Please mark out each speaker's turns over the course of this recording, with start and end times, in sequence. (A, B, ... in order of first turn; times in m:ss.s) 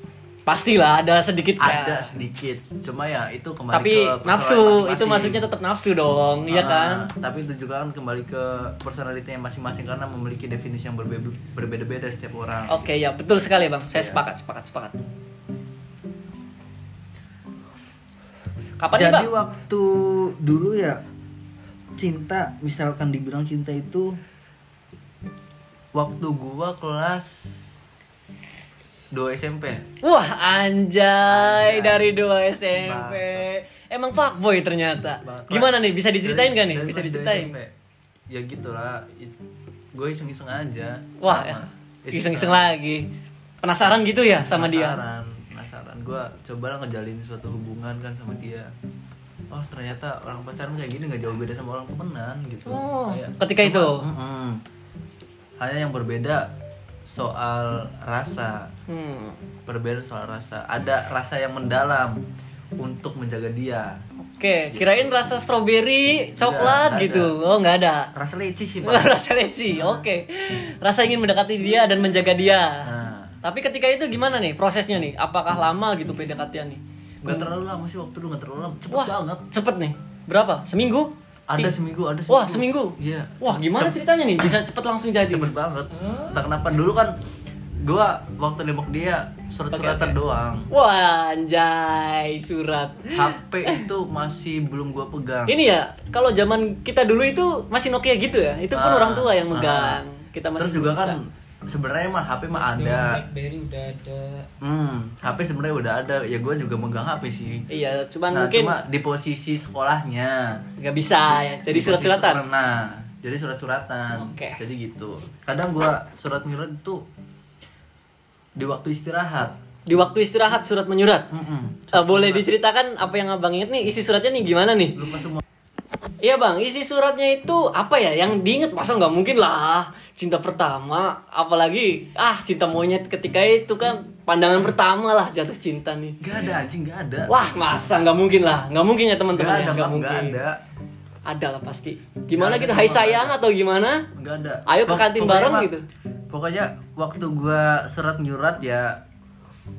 0:00.4-0:02.1 A
0:01.6-0:05.4 B
0:03.7-0:07.1 A
0:06.5-0:12.8 B
0:12.7-0:14.9 A
0:13.9-0:14.2 B
0:18.8-0:19.3 A
0:18.9-0:21.0 B
0:22.0-0:24.2 B
0:25.9-0:27.7 B
0:29.1-0:29.8 B
0:30.0-0:37.5 A
0:31.3-0:32.1 B
0:32.7-0:33.4 B
0:35.2-0:37.7 B
0:38.3-0:39.3 B
0:39.9-0:42.8 B
0:41.2-0:43.0 A
0:43.6-0:45.0 A
0:44.4-0:48.7 B
0:49.5-0:54.6 B
0:52.6-0:54.0 A
0:55.6-0:56.5 B
0:57.1-0:58.7 B
0:58.9-0:59.4 A
0:59.6-1:02.2 B
1:02.8-1:04.0 B
1:04.2-1:08.1 A
1:04.7-1:05.1 B
1:06.4-1:07.3 B
1:08.1-1:09.2 B
1:08.8-1:12.9 A
1:09.7-1:10.0 B
1:12.8-1:13.4 B
1:13.4-1:17.5 A
1:17.2-1:19.4 B
1:18.9-1:21.7 A
1:21.5-1:24.5 B
1:22.3-1:25.5 A
1:25.2-1:27.1 B
1:27.8-1:30.7 B
1:29.7-1:30.2 A
1:30.7-1:33.8 A
1:33.1-1:35.6 B
1:35.5-1:41.2 A
1:38.7-1:40.0 B
1:40.6-1:43.2 B
1:42.5-1:44.5 C
1:44.6-1:47.6 B
1:47.7-1:48.8 A
1:48.3-1:50.6 B
1:50.8-1:52.4 A
1:51.3-1:57.0 B
1:54.1-1:54.6 A
1:58.6-1:59.6 B
1:59.9-2:01.3 A
2:01.3-2:02.5 B
2:01.9-2:05.0 A
2:05.0-2:05.4 B
2:06.2-2:16.2 A
2:16.2-2:17.4 B
2:17.3-2:20.4 A
2:19.3-2:20.6 B
2:21.2-2:24.0 A
2:22.3-2:23.4 B
2:24.1-2:25.7 B
2:24.7-2:25.8 A
2:26.3-2:29.0 B